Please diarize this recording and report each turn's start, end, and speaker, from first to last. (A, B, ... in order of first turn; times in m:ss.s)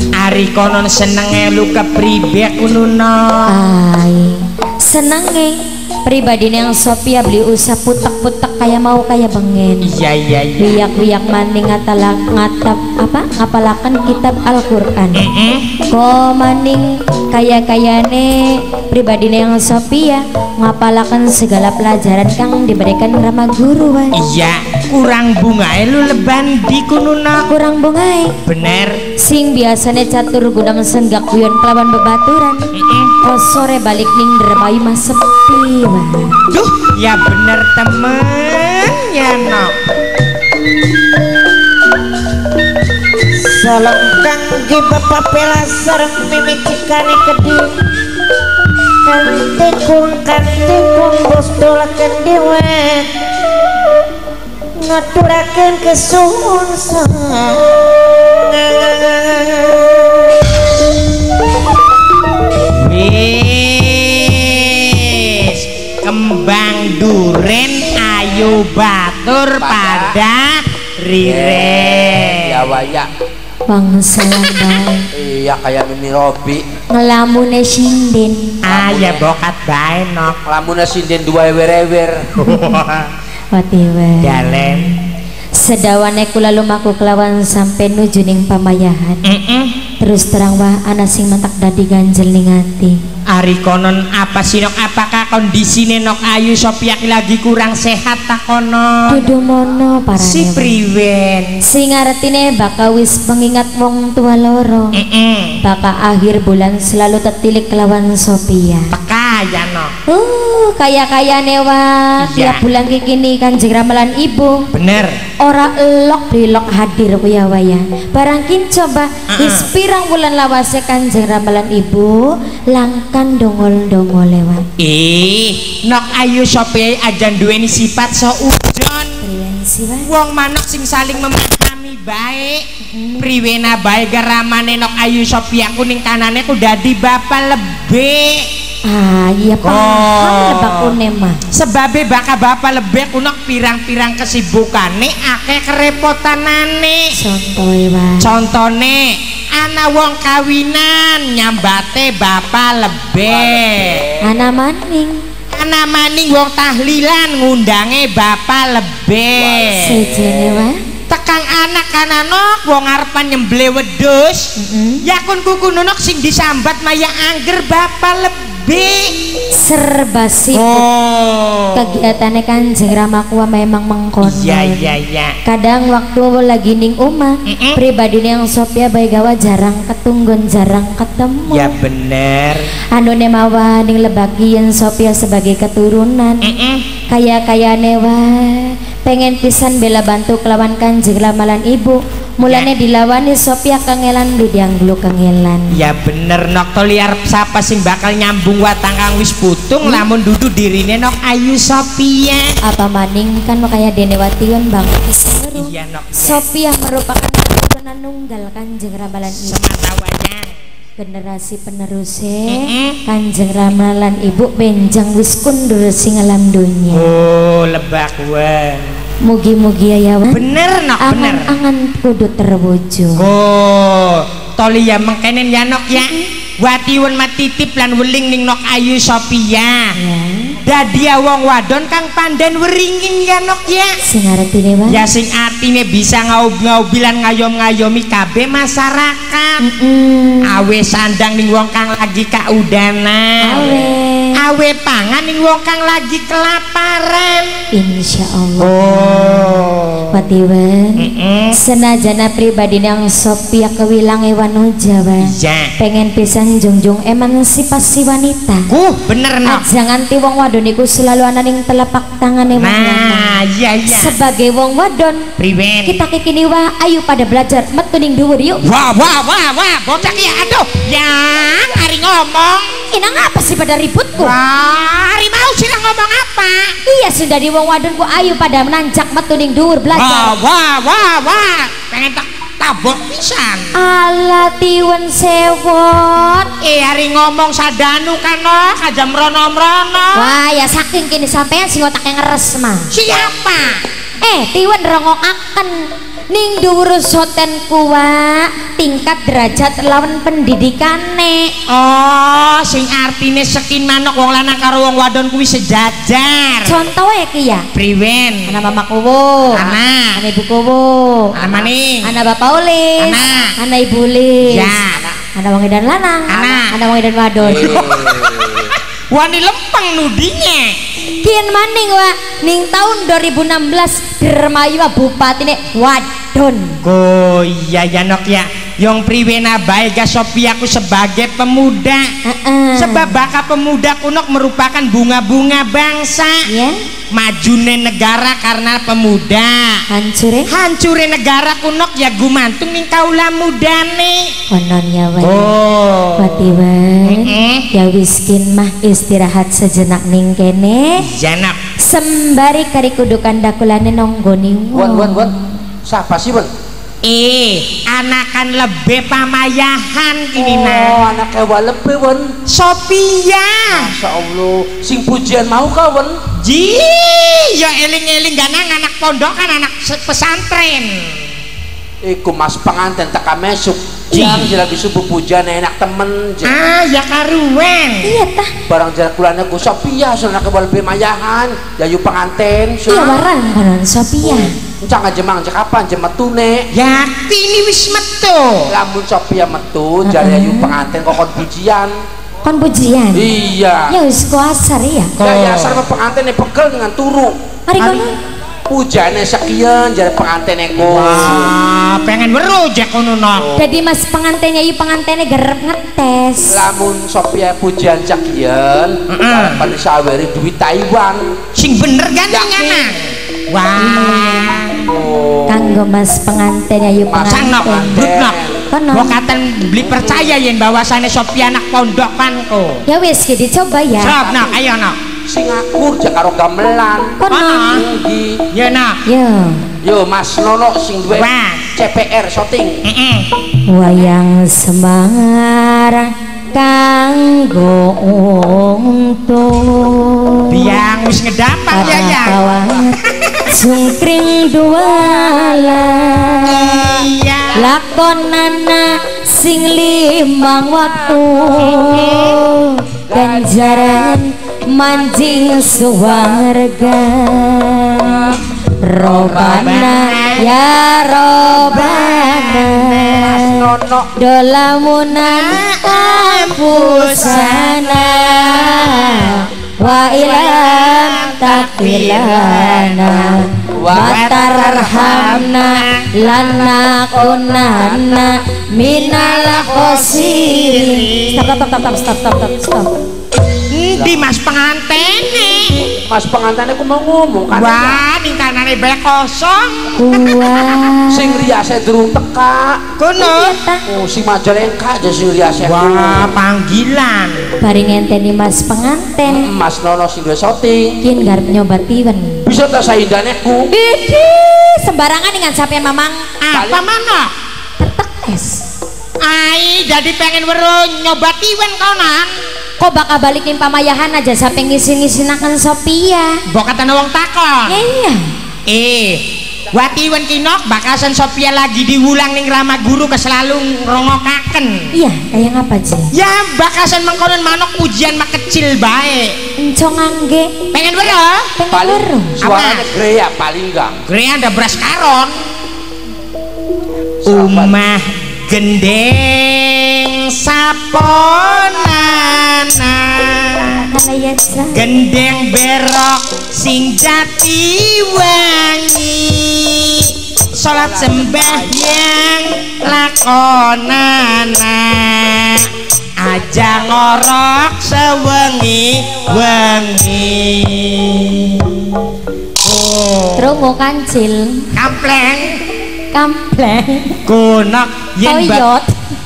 0:00.2-0:03.5 A
0:03.5-0:09.9 B
0:09.8-0:10.9 A
0:10.6-0:15.2 B
0:15.2-0:15.7 A
0:15.9-0:24.2 B
0:24.1-0:27.5 A
0:27.5-0:28.3 B
0:28.4-0:29.0 A
0:29.2-0:32.7 B
0:32.7-0:33.1 A
0:33.2-0:36.4 B
0:36.5-0:39.7 A
0:43.3-0:47.8 C
0:49.0-0:53.1 C
0:54.8-1:00.3 C
1:02.8-1:12.6 A
1:09.6-1:10.2 D
1:11.2-1:13.1 D
1:13.7-1:15.1 B
1:15.1-1:16.6 D
1:16.9-1:18.6 B
1:18.6-1:20.4 A
1:18.7-1:19.3 D
1:20.4-1:22.5 D
1:22.4-1:23.1 A
1:23.5-1:24.6 B
1:24.2-1:25.0 A
1:25.6-1:29.2 B
1:29.2-1:29.7 A
1:30.0-1:33.0 B
1:33.3-1:39.2 A
1:39.1-1:40.7 B
1:40.2-1:41.6 A
1:41.7-1:44.9 B
1:45.0-1:45.6 A
1:45.6-1:48.9 B
1:48.9-1:49.9 A
1:50.1-1:54.6 B
1:52.2-1:52.6 A
1:54.7-1:55.2 A
1:55.4-2:04.7 B
1:59.3-1:59.7 A
2:04.8-2:09.2 A
2:09.2-2:10.1 B
2:10.0-2:12.6 A
2:12.9-2:13.3 B
2:13.2-2:18.4 A
2:18.9-2:21.4 B
2:19.6-2:20.9 A
2:21.5-2:27.1 A
2:27.1-2:28.3 B
2:28.2-2:34.0 A
2:33.3-2:34.4 D
2:34.2-2:35.2 B
2:35.5-2:40.0 A
2:39.4-2:40.7 D
2:39.8-2:40.8 B
2:41.1-2:44.5 A
2:44.6-2:45.0 B
2:45.0-2:49.1 A
2:49.6-2:50.9 B
2:50.5-2:52.0 A
2:51.7-2:54.8 B
2:54.2-2:55.3 A
2:55.4-3:01.7 B
2:57.5-2:57.8 A
3:01.5-3:02.7 A
3:02.9-3:06.4 B
3:06.4-3:06.8 A
3:07.1-3:15.8 B
3:15.8-3:22.6 A
3:22.6-3:29.6 B
3:25.6-3:26.4 A
3:29.4-3:30.6 A
3:31.0-3:37.1 B
3:32.5-3:33.0 A
3:36.9-3:38.9 A
3:39.2-3:40.4 B
3:40.3-3:41.5 A
3:41.0-3:43.2 B
3:43.2-3:49.9 A
3:50.0-3:50.6 B
3:50.6-3:54.0 A
3:54.0-3:55.0 B
3:54.9-3:59.6 A
3:59.6-4:00.5 B
4:00.5-4:03.8 A
4:03.4-4:04.4 B
4:04.4-4:07.5 A
4:07.7-4:18.7 B
4:08.6-4:10.1 A
4:11.0-4:11.5 A
4:15.2-4:15.7 A
4:18.7-4:19.6 A
4:19.4-4:25.2 B
4:22.6-4:24.2 A
4:25.4-4:26.0 A
4:25.9-4:28.6 B
4:28.6-4:32.8 A
4:32.9-4:34.4 B
4:34.2-4:36.8 A
4:36.9-4:40.3 B
4:39.9-4:43.7 A
4:43.7-4:46.5 B
4:46.6-4:50.3 A
4:50.2-4:52.9 B
4:52.9-4:53.8 A
4:54.2-4:55.8 B
4:56.3-5:01.5 B
5:01.7-5:06.7 A
5:06.7-5:07.7 B
5:07.7-5:08.5 A
5:08.5-5:11.3 B
5:09.6-5:10.1 A
5:11.4-5:12.0 A
5:12.0-5:14.8 B
5:13.0-5:13.5 A
5:14.4-5:15.2 A
5:15.4-5:17.8 B
5:16.3-5:16.7 A
5:17.4-5:18.7 D
5:17.6-5:20.8 A
5:21.2-5:26.8 B
5:26.8-5:32.1 A
5:32.2-5:33.2 B
5:32.8-5:36.4 A
5:36.5-5:36.8 B
5:37.1-5:39.8 A
5:39.9-5:40.5 B
5:40.5-5:44.3 A
5:44.5-5:45.5 B
5:45.2-5:46.5 A
5:46.2-5:51.0 B
5:47.0-5:47.6 A
5:51.1-5:51.6 A
5:51.8-5:55.4 B
5:54.7-5:55.3 D
5:55.8-5:56.5 D
5:57.0-6:01.0 A
6:00.4-6:02.3 D
6:02.5-6:03.9 A
6:03.7-6:06.2 D
6:06.4-6:11.1 A
6:12.0-6:16.6 D
6:14.1-6:14.5 A
6:16.4-6:18.1 A
6:18.0-6:18.5 B
6:18.7-6:23.3 D
6:22.9-6:24.5 B
6:24.3-6:26.7 D
6:26.7-6:28.7 A
6:28.7-6:31.9 D
6:30.1-6:30.7 B
6:32.4-6:33.3 B
6:33.1-6:33.9 D
6:33.9-6:35.1 B
6:35.2-6:35.8 A
6:35.2-6:37.4 D
6:37.7-6:38.2 B
6:37.8-6:38.1 A
6:38.7-6:41.6 D
6:40.8-6:43.5 A
6:43.4-6:43.7 D
6:43.6-6:46.6 B
6:46.5-6:51.4 D
6:49.1-6:49.6 A
6:51.6-6:54.8 A
6:52.3-6:52.8 D
6:53.8-6:54.5 B
6:54.8-6:55.8 D
6:55.5-6:58.0 B
6:57.1-6:58.7 D
6:57.3-6:58.4 A
6:58.7-6:59.2 B
6:58.9-7:02.8 A
6:59.8-7:00.4 D
7:02.9-7:04.2 B
7:04.0-7:05.0 A
7:04.2-7:04.6 D
7:05.3-7:08.4 D
7:07.2-7:07.8 B
7:07.3-7:07.8 A
7:08.5-7:09.0 A
7:09.1-7:09.6 B
7:09.8-7:12.8 D
7:11.1-7:11.7 A
7:12.8-7:13.3 A
7:13.7-7:20.7 B
7:20.5-7:22.4 A
7:21.7-7:27.0 B
7:21.9-7:22.7 D
7:23.1-7:23.4 A
7:26.4-7:27.7 A
7:27.5-7:43.6 B
7:31.6-7:32.4 A
7:33.1-7:34.2 D
7:39.1-7:40.5 A
7:39.2-7:39.9 D
7:41.6-7:43.0 A
7:41.8-7:42.1 D
7:43.1-7:44.1 D
7:44.2-8:02.9 B
7:45.3-7:53.3 A
7:53.8-7:54.9 D
7:53.9-7:56.1 A
7:58.8-8:01.3 A
8:03.7-8:05.8 A
8:04.0-8:04.3 D
8:05.7-8:08.0 D
8:07.5-8:10.8 A
8:10.0-8:11.4 B
8:11.1-8:12.8 D
8:13.0-8:13.6 A
8:13.2-8:13.8 B
8:13.9-8:16.4 D
8:15.6-8:17.5 A
8:17.6-8:19.5 B
8:19.3-8:21.0 D
8:21.0-8:22.4 B
8:22.5-8:23.7 D
8:23.7-8:26.3 B
8:26.4-8:27.3 A
8:26.5-8:26.9 D
8:27.8-8:28.6 B
8:29.2-8:32.3 A
8:32.8-8:36.4 B
8:36.5-8:37.7 A
8:37.7-8:38.2 B
8:38.7-8:44.9 A
8:44.9-8:46.1 B
8:46.1-8:49.3 A
8:49.6-8:50.5 B
8:50.7-8:51.5 A
8:51.6-8:52.4 B
8:51.7-8:54.0 D
8:52.4-8:52.9 A
8:54.1-8:55.3 A
8:57.2-8:57.8 D
8:57.3-9:03.8 A
9:03.9-9:04.8 B
9:04.7-9:22.0 A
9:10.7-9:12.1 D
9:22.6-9:23.6 A
9:23.4-9:24.7 B
9:24.7-9:25.6 A
9:26.1-9:27.2 B
9:27.3-9:28.6 A
9:28.2-9:28.9 B